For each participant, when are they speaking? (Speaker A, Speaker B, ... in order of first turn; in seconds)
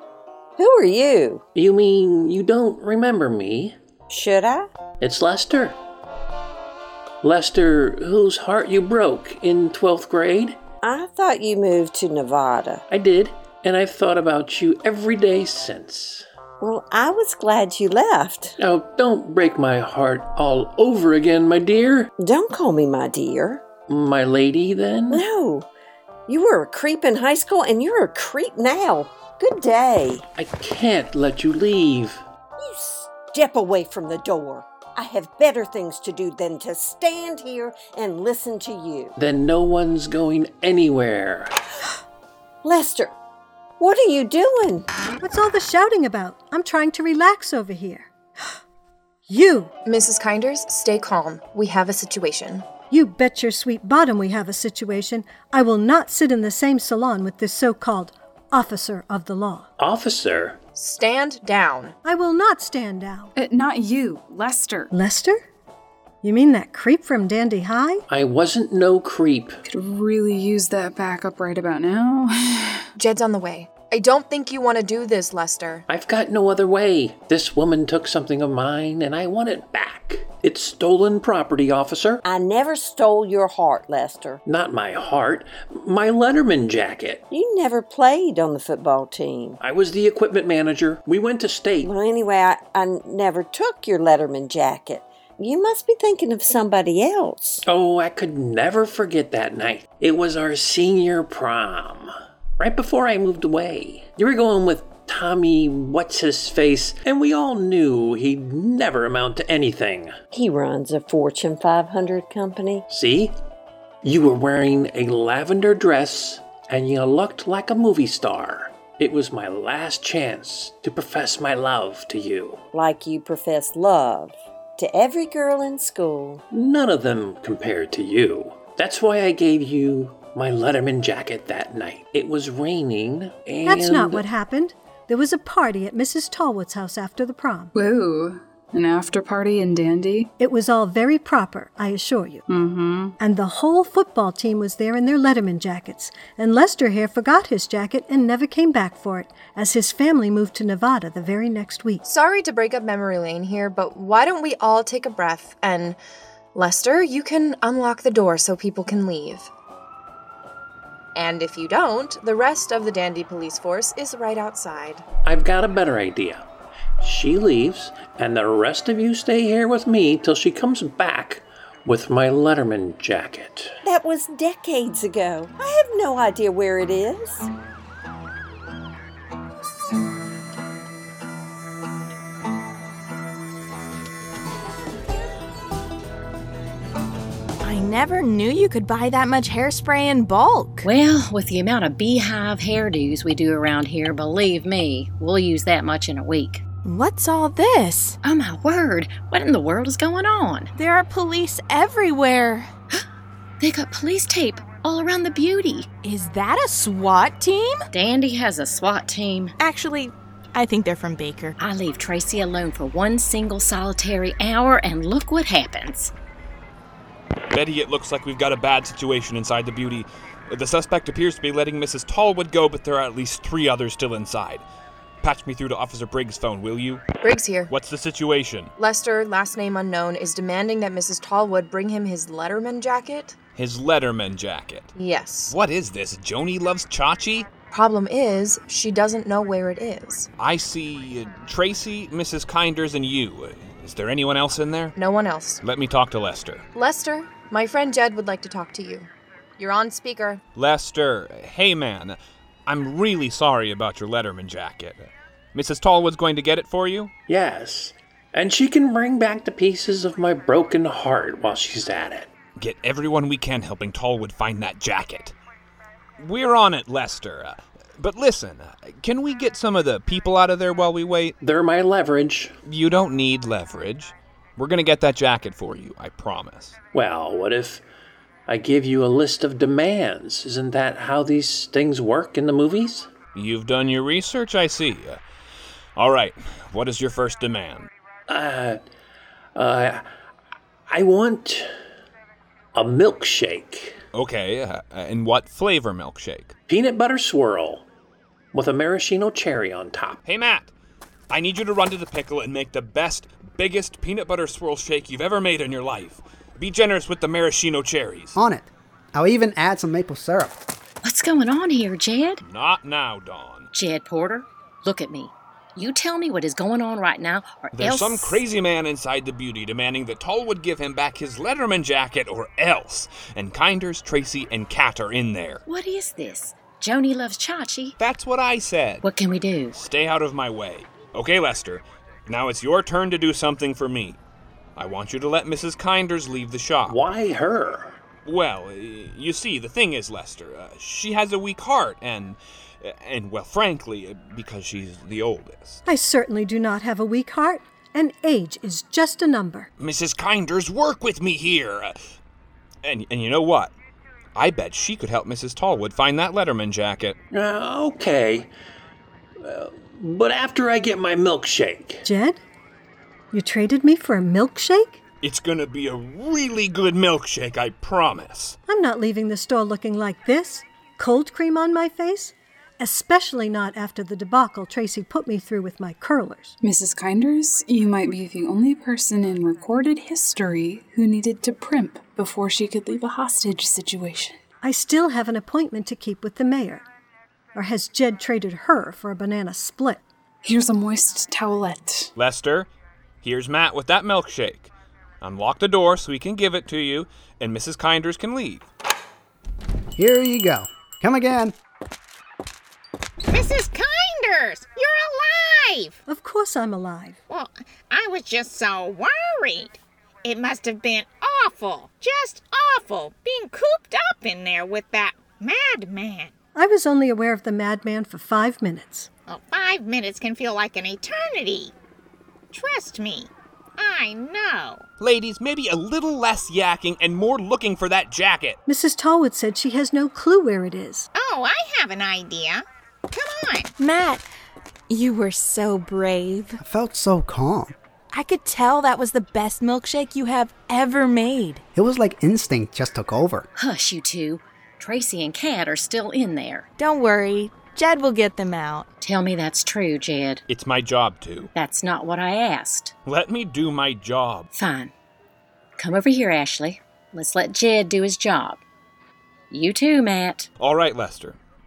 Speaker A: 0.6-1.4, 4.1-4.7, 10.8-12.8, 16.6-18.6, 22.2-23.6, 25.1-25.7, 26.3-30.2, 32.6-39.1, 42.6-43.1, 43.8-44.9, 82.2-84.4, 87.3-89.6, 91.8-97.6, 110.3-112.8, 122.7-126.4, 173.8-177.5
Speaker B: 1.5-3.8, 5.0-5.8, 7.2-10.6, 12.9-16.2, 18.6-22.1, 23.9-25.2, 30.4-32.2, 39.2-41.5, 59.8-60.6, 68.1-69.6, 75.9-82.2, 84.5-87.2, 89.6-91.9, 97.6-110.1, 112.9-113.3, 114.0-122.6, 126.5-134.2, 165.2-166.4, 167.0-173.8, 257.3-262.3, 271.4-272.5, 276.9-277.8, 278.5-283.1, 288.3-288.8, 289.6-290.0, 290.9-291.7, 292.7-294.0, 296.7-297.8, 298.5-300.2, 336.9-338.0, 357.3-358.5, 359.4-362.0
Speaker C: 45.2-48.5, 49.3-49.7, 52.9-59.7, 62.0-63.3, 64.9-65.4, 66.2-68.0, 133.6-137.7, 140.4-142.4, 143.2-152.0, 345.9-349.7, 362.0-362.4, 363.3-365.0, 368.7-376.5, 384.6-386.8, 387.5-390.0, 406.1-407.2, 416.5-419.1, 428.6-431.1
Speaker D: 49.8-52.6, 60.7-62.0, 73.0-75.8, 152.1-156.0, 156.5-159.5, 161.1-165.0, 227.2-227.7, 228.8-233.3, 234.9-235.6, 237.7-240.3, 245.0-245.6, 246.7-250.4
Speaker E: 63.4-64.9, 69.7-72.9, 137.7-140.3, 142.5-143.2, 376.6-384.4, 390.4-392.1
Speaker F: 187.6-190.9, 196.8-198.2, 200.8-202.7, 206.0-207.8, 209.6-211.6, 433.8-434.2, 434.9-436.6, 438.1-441.6, 446.8-448.9
Speaker G: 190.8-196.6, 198.2-200.7, 203.6-205.9, 207.9-209.5, 211.6-216.1, 311.0-312.4, 313.7-318.4, 325.6-327.9, 329.0-329.8, 443.6-446.7, 449.0-450.4, 451.5-452.9, 454.5-454.9, 455.8-458.6, 459.5-460.5
Speaker H: 217.5-224.7, 225.2-227.0, 227.7-228.7, 233.6-234.9, 235.5-237.5, 240.4-244.9, 245.6-246.7, 250.6-257.1, 262.6-265.3, 266.2-271.4, 272.6-276.8, 283.3-285.2, 285.9-287.9, 294.1-296.5, 300.2-300.7, 301.3-308.4, 312.4-313.7, 317.7-325.6, 328.0-329.0, 329.7-334.2, 334.8-337.0, 338.2-345.8, 349.8-351.9, 352.8-353.7, 354.3-357.1, 365.2-368.6, 392.1-392.7, 393.2-398.6, 425.0-428.6, 450.5-451.5, 453.0-454.5, 460.6-461.4
Speaker I: 308.4-310.6, 399.9-401.5, 436.6-437.7, 441.7-443.5
Speaker J: 403.3-406.0, 407.3-416.3, 419.3-421.7, 422.5-424.8, 431.1-433.7